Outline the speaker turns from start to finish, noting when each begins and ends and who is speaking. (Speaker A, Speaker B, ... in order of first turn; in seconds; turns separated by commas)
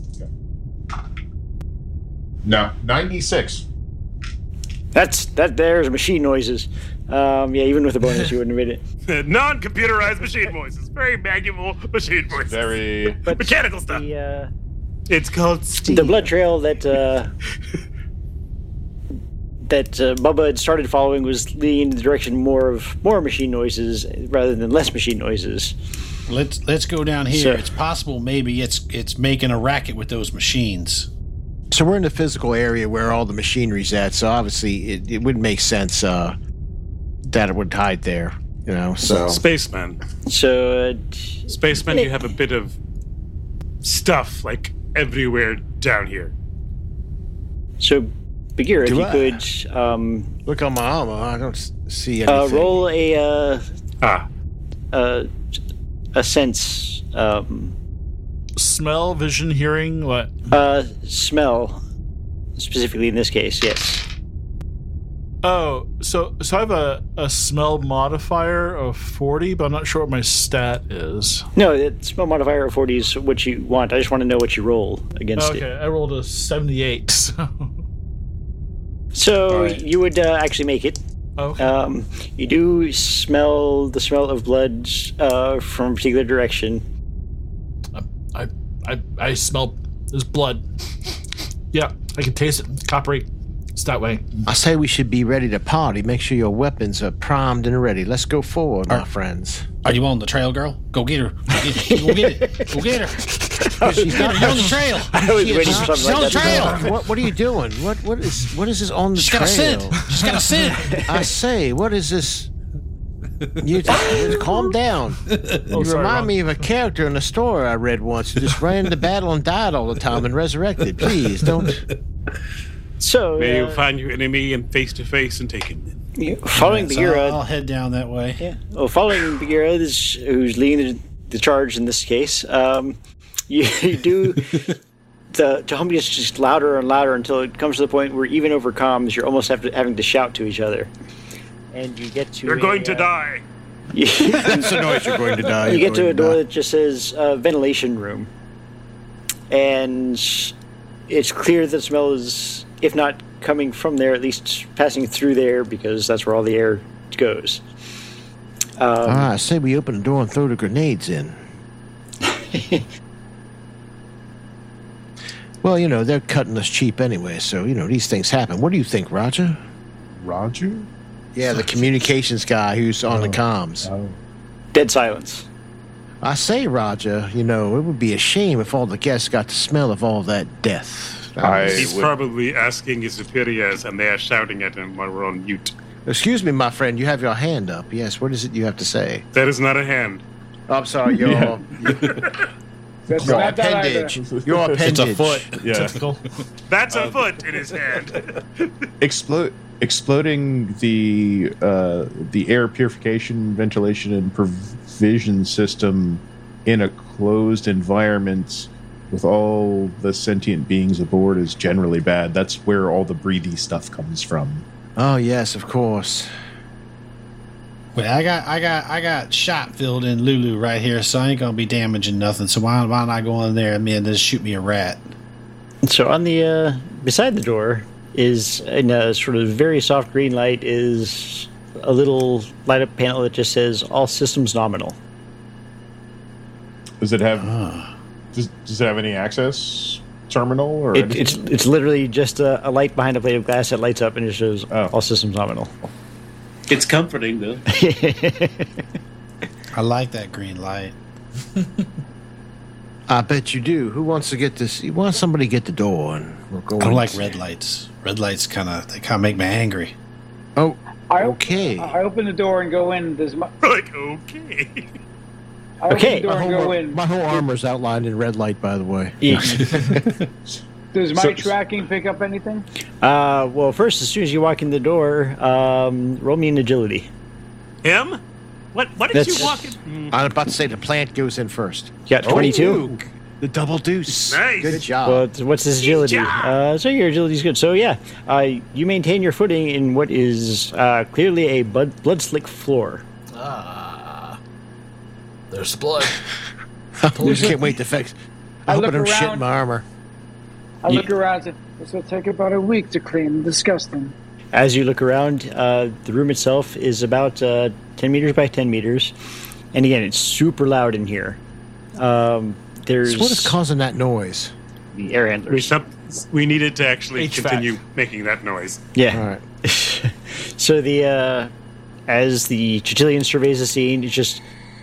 Speaker A: 2.4-3.6, Speaker B: 4.9-8.8, Speaker C: 9.1-14.0, Speaker A: 12.5-13.2, Speaker B: 13.2-14.5, Speaker C: 15.1-16.3, Speaker B: 15.9-17.3, Speaker B: 19.6-25.8, Speaker D: 26.3-31.1, Speaker B: 27.3-27.7, Speaker E: 31.7-36.3, Speaker E: 37.2-39.4, Speaker C: 39.1-40.0, Speaker B: 40.2-42.1, Speaker C: 41.5-42.8, Speaker C: 43.8-46.3, Speaker B: 47.8-50.3, Speaker E: 48.8-49.4, Speaker E: 50.5-52.9, Speaker B: 52.3-53.6, Speaker B: 54.9-55.3, Speaker B: 56.1-57.8, Speaker F: 58.6-60.4, Speaker B: 60.5-61.8, Speaker B: 62.6-64.0, Speaker F: 65.4-71.5, Speaker B: 71.5-75.6, Speaker F: 75.4-77.7, Speaker B: 79.1-81.0, Speaker D: 79.5-79.8, Speaker F: 81.4-81.7, Speaker B: 81.6-86.8, Speaker F: 87.9-90.6, Speaker F: 91.7-94.3, Speaker E: 94.5-99.8, Speaker D: 99.8-106.9, Speaker B: 101.6-102.7, Speaker B: 103.7-106.9, Speaker E: 103.8-112.5, Speaker D: 109.2-111.0, Speaker B: 110.7-111.3, Speaker E: 113.6-121.8, Speaker D: 114.0-114.4, Speaker D: 115.3-115.7, Speaker F: 115.7-116.4, Speaker D: 121.4-121.8, Speaker B: 123.0-123.8, Speaker C: 123.4-126.0, Speaker B: 126.2-127.4, Speaker D: 126.5-128.4, Speaker B: 128.4-133.0, Speaker B: 133.5-134.7, Speaker B: 135.3-140.9, Speaker B: 141.7-143.1, Speaker C: 142.4-143.4, Speaker B: 143.9-144.8, Speaker E: 144.2-146.4, Speaker B: 145.6-148.3, Speaker B: 149.5-150.6, Speaker B: 151.1-157.6, Speaker B: 158.8-159.3, Speaker E: 159.1-161.4, Speaker B: 162.2-162.9, Speaker E: 165.6-169.6, Speaker A: 170.2-170.9, Speaker E: 171.3-173.9, Speaker A: 173.8-174.2, Speaker B: 174.7-175.5, Speaker E: 176.2-182.0, Speaker A: 181.4-182.1, Speaker C: 181.7-185.7, Speaker E: 186.1-189.2, Speaker C: 189.3-190.2, Speaker E: 190.7-192.2, Speaker G: 193.1-194.2, Speaker A: 193.1-193.6, Speaker E: 193.2-195.5, Speaker A: 194.2-195.1, Speaker D: 194.8-196.0, Speaker A: 195.6-196.0, Speaker F: 195.8-196.3, Speaker C: 196.7-198.7, Speaker A: 199.0-214.6, Speaker E: 215.0-216.3, Speaker D: 217.9-225.1, Speaker B: 225.8-235.0, Speaker A: 237.0-237.5, Speaker D: 237.4-237.9, Speaker A: 238.3-241.4, Speaker B: 240.9-245.9, Speaker A: 244.7-244.9, Speaker C: 246.7-247.6, Speaker B: 247.7-248.8, Speaker D: 249.7-251.0, Speaker E: 253.1-257.3, Speaker D: 256.8-259.9, Speaker E: 260.6-262.0, Speaker G: 261.1-263.5, Speaker C: 263.6-264.9, Speaker G: 265.8-267.4, Speaker B: 265.9-266.3, Speaker E: 266.1-270.1, Speaker B: 269.2-269.9, Speaker A: 269.3-270.6, Speaker G: 270.9-272.7, Speaker A: 271.1-271.6, Speaker B: 273.0-277.1, Speaker C: 277.8-278.2, Speaker C: 278.7-280.2, Speaker B: 279.1-279.8, Speaker E: 280.1-285.3, Speaker B: 282.1-282.8, Speaker A: 282.2-283.0, Speaker C: 284.1-284.9, Speaker B: 284.9-293.0, Speaker C: 285.8-286.6, Speaker F: 293.3-294.4, Speaker F: 295.5-296.3, Speaker E: 297.0-299.9, Speaker F: 297.1-297.7, Speaker G: 298.7-299.5, Speaker G: 300.8-304.1, Speaker B: 304.5-309.1, Speaker B: 309.7-311.4, Speaker B: 312.0-313.6, Speaker E: 313.0-314.5, Speaker B: 314.9-315.7, Speaker C: 315.5-318.8, Speaker F: 317.2-317.8, Speaker B: 318.9-321.5, Speaker E: 319.1-319.4, Speaker B: 322.1-324.4